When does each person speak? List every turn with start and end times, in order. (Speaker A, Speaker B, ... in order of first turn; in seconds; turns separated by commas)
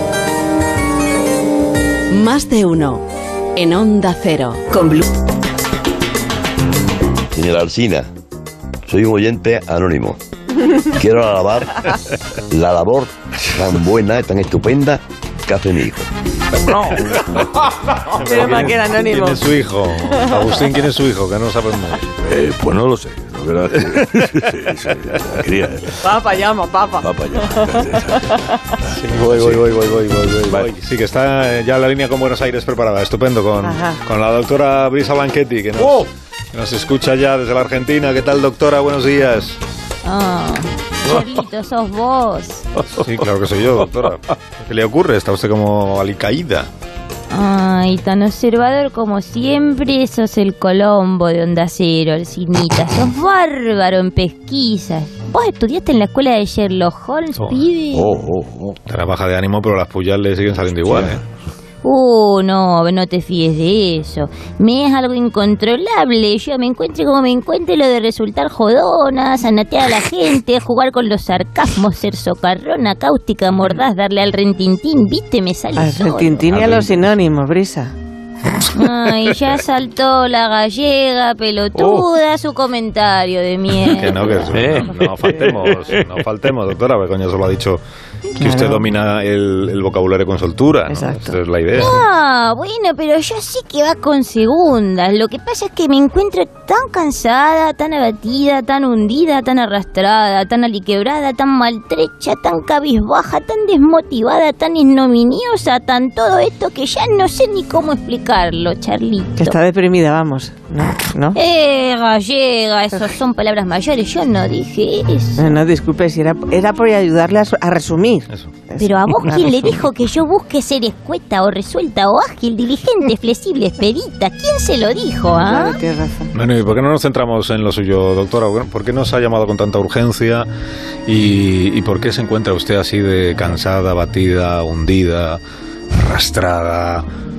Speaker A: 2.1-3.0, Speaker A: 3.6-5.1, Speaker B: 7.3-8.1, Speaker B: 8.9-10.2, Speaker B: 10.9-11.9, Speaker B: 12.5-16.1, Speaker C: 16.5-17.1, Speaker D: 18.1-19.5, Speaker E: 18.2-22.0, Speaker C: 22.2-26.0, Speaker D: 26.0-28.0, Speaker C: 27.0-28.4, Speaker E: 28.9-39.6, Speaker C: 29.1-30.7, Speaker D: 33.6-34.0, Speaker C: 35.8-36.1, Speaker F: 40.1-42.6, Speaker E: 42.9-46.7, Speaker F: 47.3-58.1, Speaker E: 57.4-57.7, Speaker C: 57.9-58.8, Speaker E: 58.9-61.2, Speaker C: 60.8-61.2, Speaker F: 61.9-76.4, Speaker D: 75.8-77.9, Speaker C: 76.5-76.9, Speaker F: 78.8-84.3, Speaker C: 81.8-82.1, Speaker E: 84.0-87.8, Speaker C: 84.5-86.0, Speaker E: 88.4-92.0, Speaker D: 88.4-88.9, Speaker D: 90.9-91.4, Speaker F: 91.8-109.6, Speaker D: 109.4-111.4, Speaker F: 111.3-115.5, Speaker D: 115.4-119.8, Speaker F: 118.8-125.8, Speaker D: 125.4-126.3, Speaker E: 126.3-130.5, Speaker E: 131.1-135.4, Speaker E: 135.9-137.1